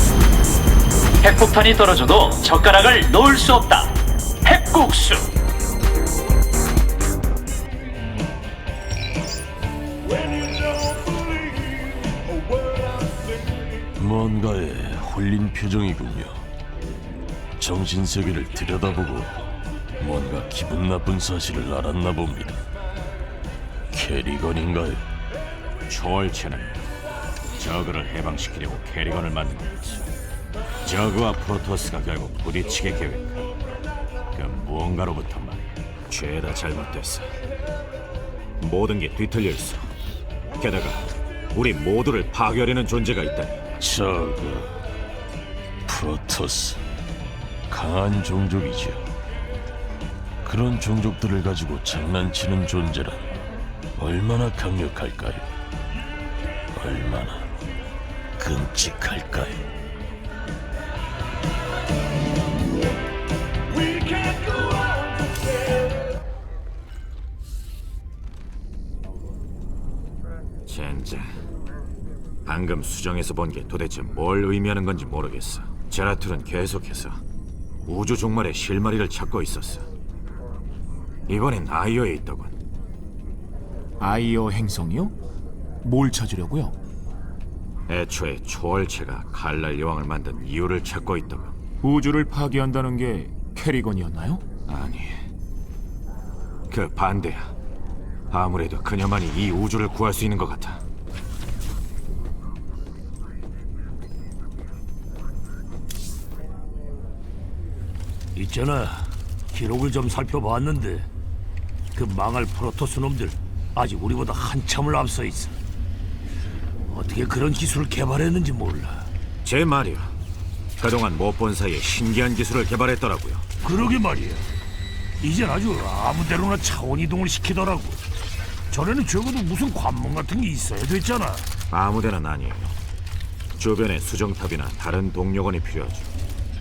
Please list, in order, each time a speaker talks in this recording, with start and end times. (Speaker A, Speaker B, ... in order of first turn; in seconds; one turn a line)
Speaker A: 1.2-5.3
Speaker B: 10.2-13.5
Speaker C: 13.9-16.5
Speaker C: 17.6-19.4
Speaker C: 20.0-22.6
Speaker C: 23.9-25.0
Speaker D: 25.9-26.8
Speaker D: 27.5-30.0
Speaker D: 30.8-33.5
Speaker D: 34.3-37.3
Speaker D: 38.6-39.9
Speaker D: 40.6-43.6
Speaker C: 43.8-44.8
Speaker C: 45.9-46.8
Speaker C: 47.7-49.1
Speaker C: 50.4-53.4
Speaker C: 54.0-55.5
Speaker C: 56.7-57.5
Speaker C: 58.4-59.6
Speaker B: 63.9-65.5
Speaker D: 70.7-71.3
Speaker D: 72.5-77.2
Speaker D: 77.8-79.8
Speaker D: 81.3-82.5
Speaker E: 84.0-85.2
Speaker E: 85.8-86.7
Speaker D: 87.9-91.5
Speaker E: 91.8-94.5
Speaker D: 94.7-95.2
Speaker D: 96.7-97.5
Speaker D: 98.3-100.8
Speaker B: 108.3-111.1
Speaker B: 111.9-115.5
Speaker B: 116.9-119.1
Speaker D: 119.4-120.1
Speaker D: 120.8-123.5
Speaker B: 123.6-124.5
Speaker B: 125.2-128.0
Speaker B: 128.7-131.5
Speaker D: 131.7-132.7
Speaker D: 133.6-136.1